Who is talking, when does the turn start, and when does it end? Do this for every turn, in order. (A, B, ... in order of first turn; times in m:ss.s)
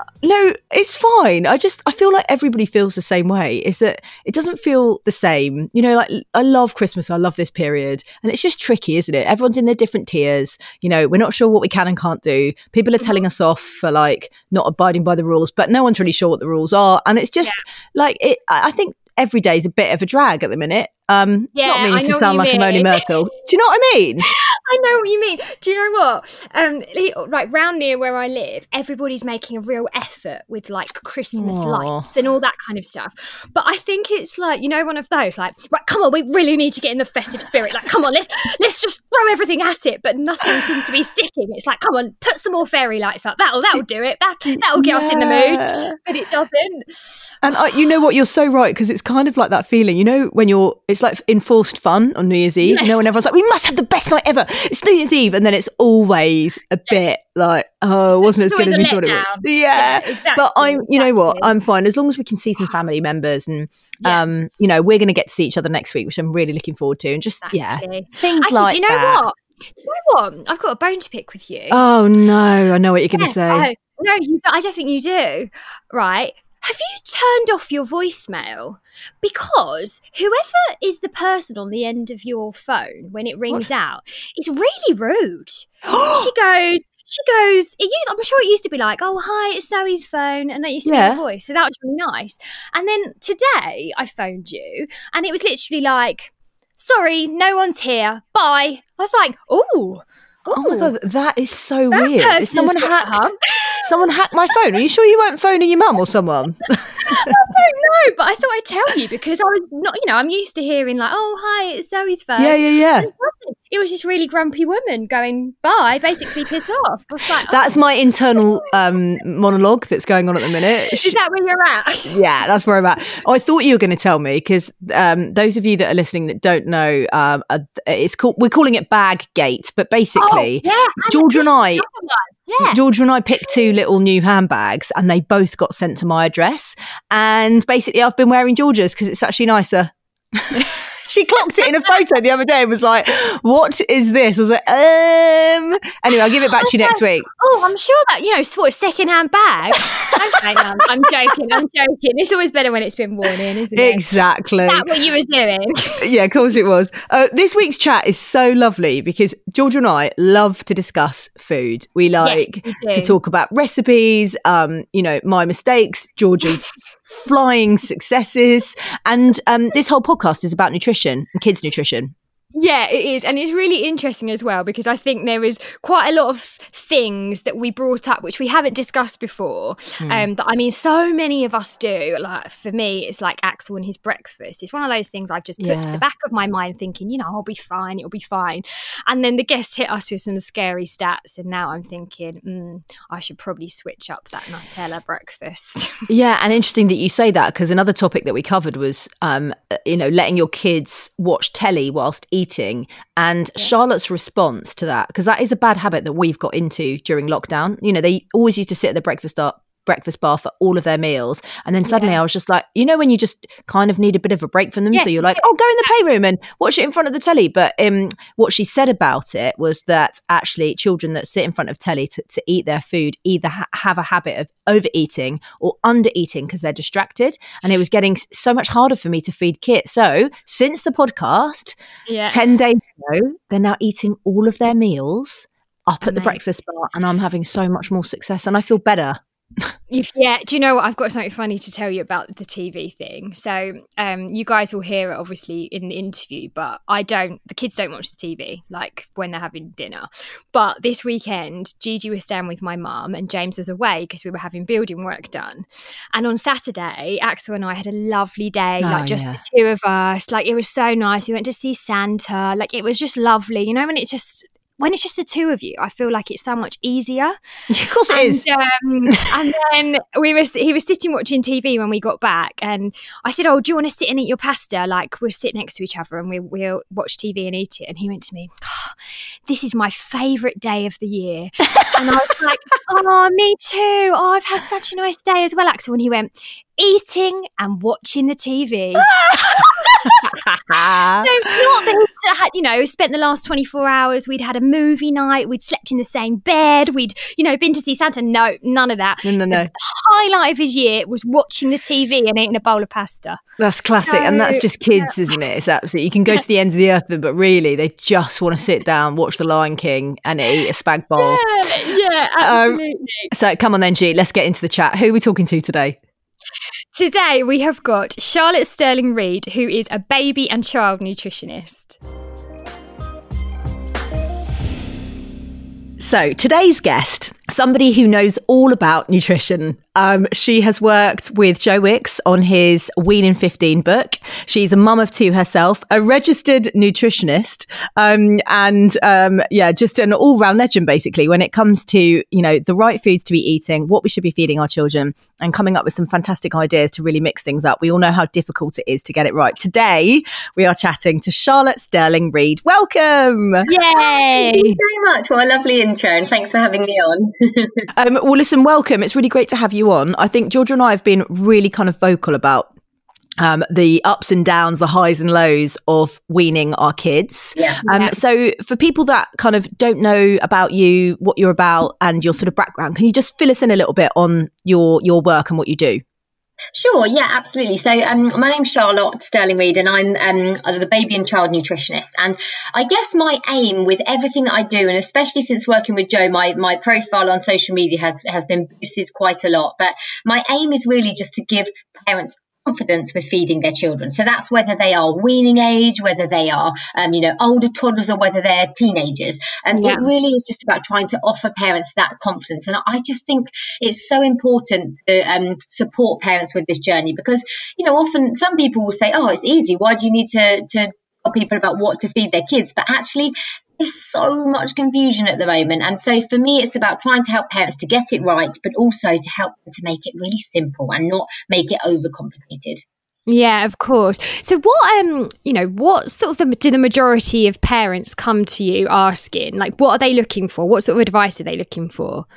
0:00.2-0:24.3 A
0:21.6-0:23.1 B
0:24.3-0:47.2 B
0:31.4-0:32.1 A
0:44.5-0:46.0 A
0:47.4-1:09.2 A
0:52.6-0:53.0 B
0:58.1-1:01.5 B
1:07.4-1:11.8 B
1:11.7-1:13.7 A
1:13.2-1:40.9 B
1:25.8-1:26.3 A
1:30.9-1:31.2 A
1:40.5-1:47.3 A
1:41.9-1:43.8 B
1:47.0-1:57.8 B
1:52.4-1:53.1 A
1:57.5-2:01.2 A
2:00.9-2:02.2 B
2:02.1-2:11.9 A
2:10.2-2:12.8 B
2:12.6-2:27.3 A
2:13.4-2:13.7 B
2:26.5-2:36.0 B
2:33.8-2:34.9 A
2:36.0-2:52.1 A
2:42.2-2:43.2 B
2:52.5-3:16.0 B
3:00.0-3:00.3 A
3:05.6-3:06.0 A
3:16.1-3:51.8 A
3:31.8-3:32.2 B
3:34.9-3:36.0 B
3:52.1-3:52.4 B
3:52.3-3:59.7 A
3:56.0-3:56.4 B
3:59.9-4:27.4 B
4:18.8-4:19.4 A
4:27.7-4:28.4 A
4:28.1-4:39.0 B
4:39.5-4:50.4 B
4:49.0-4:51.4 A
4:51.2-5:03.4 B
4:59.2-4:59.7 A
5:03.6-5:11.7 A
5:03.9-5:05.3 B
5:11.2-5:13.3 B
5:12.4-5:16.0 A
5:16.9-5:22.0 B
5:26.0-5:53.7 A
5:53.7-5:54.8 B
5:53.7-5:57.9 C
5:57.9-6:02.7 A
6:03.4-6:16.0 A
6:07.6-6:07.8 C
6:07.9-6:08.2 B
6:16.8-7:02.8 C
6:39.7-6:40.1 B
7:03.3-7:12.3 B